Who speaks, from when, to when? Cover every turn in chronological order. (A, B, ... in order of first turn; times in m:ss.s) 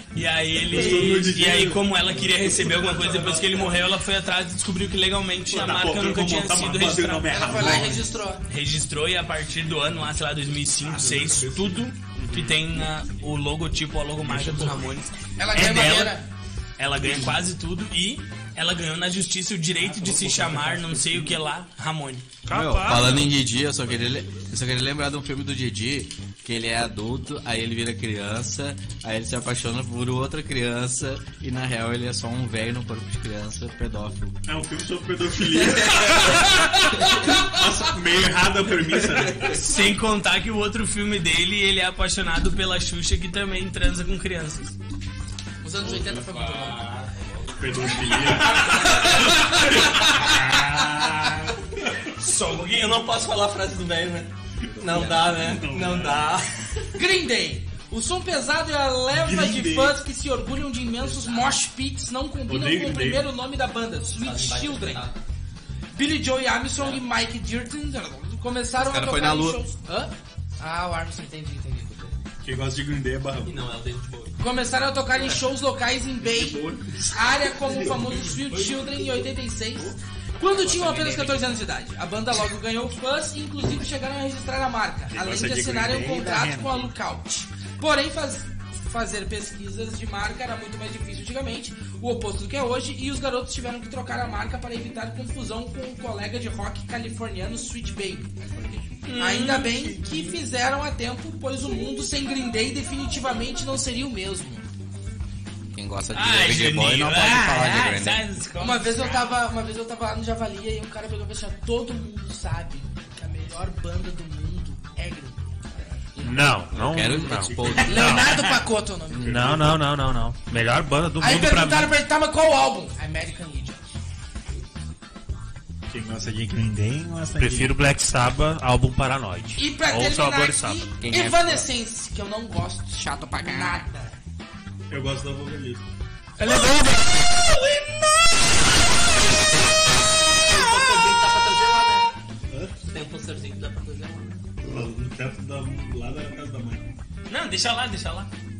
0:00.1-0:16.2 A
0:00.6-0:03.8 B
0:05.5-0:08.1 B
0:07.3-0:08.4 C
0:10.8-0:11.9 B
0:12.2-0:12.6 D
0:14.2-0:14.9 B
0:15.4-0:16.2 C
0:16.8-0:22.3 A
0:17.0-0:17.4 B
0:19.8-0:21.4 B
0:22.4-0:23.3 D
0:22.5-0:34.4 E
0:34.4-0:39.7 B
0:39.4-0:44.8 A
0:45.6-0:46.9 C
0:45.8-0:46.2 B
0:46.3-0:48.9 F
0:47.6-0:49.1 B
0:47.9-0:50.4 C
0:50.1-0:52.0 B
0:52.1-0:53.1 A
0:52.5-0:56.8 F
0:54.6-0:56.4 B
0:56.9-1:05.0 C
0:59.1-1:00.0 B
1:01.0-1:01.6 F
1:02.5-1:03.3 B
1:04.2-1:05.2 F
1:05.9-1:12.1 C
1:08.8-1:09.6 E
1:12.4-1:13.6 B
1:13.4-1:14.4 F
1:14.4-1:38.4 C
1:16.2-1:17.0 B
1:17.7-1:18.7 B
1:20.8-1:21.2 E
1:20.8-1:21.3 F
1:25.1-1:26.9 B
1:38.4-1:38.9 E
1:39.0-1:39.7 A
1:39.1-1:44.6 C
1:39.7-1:40.4 B
1:45.7-1:48.4 E
1:46.1-1:49.3 A
1:48.6-1:56.1 C
1:56.2-1:58.3 E
1:56.2-1:58.4 D
1:57.2-1:58.5 B
1:57.8-1:59.5 C
1:59.1-1:59.9 B
1:59.2-2:01.9 D
2:01.2-2:03.8 C
2:05.9-2:07.8 B
2:07.4-2:10.9 D
2:09.6-2:14.2 C
2:11.0-2:11.7 E
2:12.9-2:13.8 E
2:14.9-2:15.8 B
2:16.4-2:17.0 D
2:20.4-2:22.1 F
2:22.5-2:22.8 B
2:22.8-2:24.5 F
2:24.6-2:26.9 B
2:27.3-2:28.3 A